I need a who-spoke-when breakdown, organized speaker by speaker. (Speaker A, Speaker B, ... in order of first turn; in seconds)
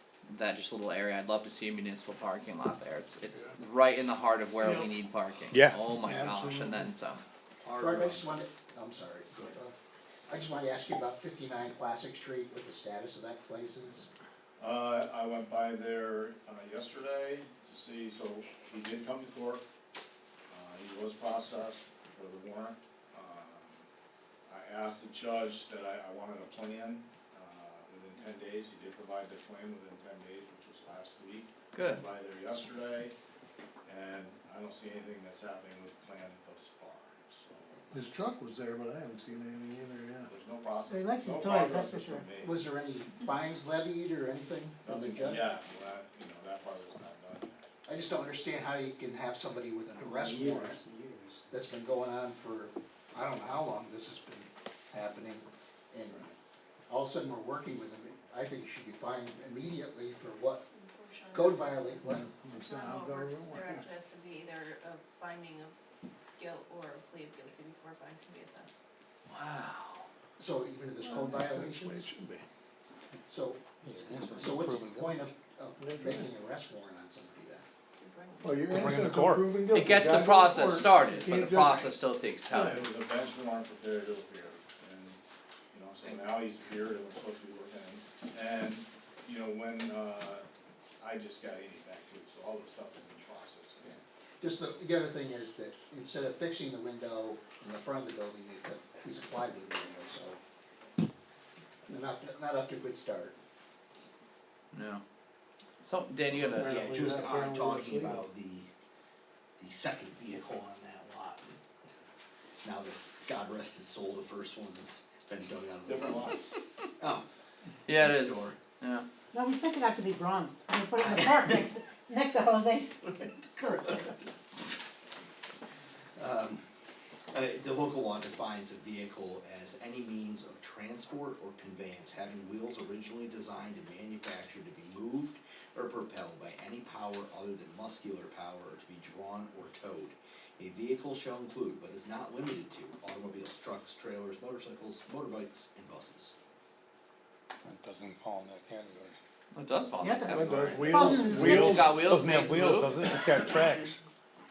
Speaker A: 0.3-7.2, 31.7-32.0, 69.3-70.0, 79.7-82.8, 104.7-105.0, 105.8-106.7, 117.9-119.0, 149.5-153.0
Speaker B: 4.6-4.9, 6.0-6.9, 37.9-40.3, 62.4-63.8, 71.0-72.5, 75.8-76.2, 78.4-81.8, 106.3-108.2, 150.4-151.7
Speaker C: 5.5-5.8, 73.8-75.1, 78.7-79.9, 147.7-149.2, 151.2-154.0
Speaker D: 7.6-8.2, 106.6-108.7, 109.6-111.5, 112.6-116.4, 117.0-117.2, 117.9-118.6, 121.0-121.7, 123.1-123.3, 126.2-126.7, 127.3-146.3
Speaker E: 7.8-9.7, 10.3-14.1, 42.4-45.4, 47.9-50.8, 51.5-56.3, 56.9-60.6, 61.3-62.3, 70.4-72.1, 73.3-77.7, 93.8-100.4, 101.9-103.4
Speaker F: 14.6-19.6, 20.5-23.9, 24.5-33.1, 33.9-37.8, 40.3-42.5, 44.9-47.7, 82.5-85.2, 85.7-90.5, 91.0-94.0, 115.9-116.5
Speaker G: 40.9-42.3, 119.3-124.1, 150.0-151.8
Speaker H: 60.7-65.8, 66.4-68.8, 78.0-78.7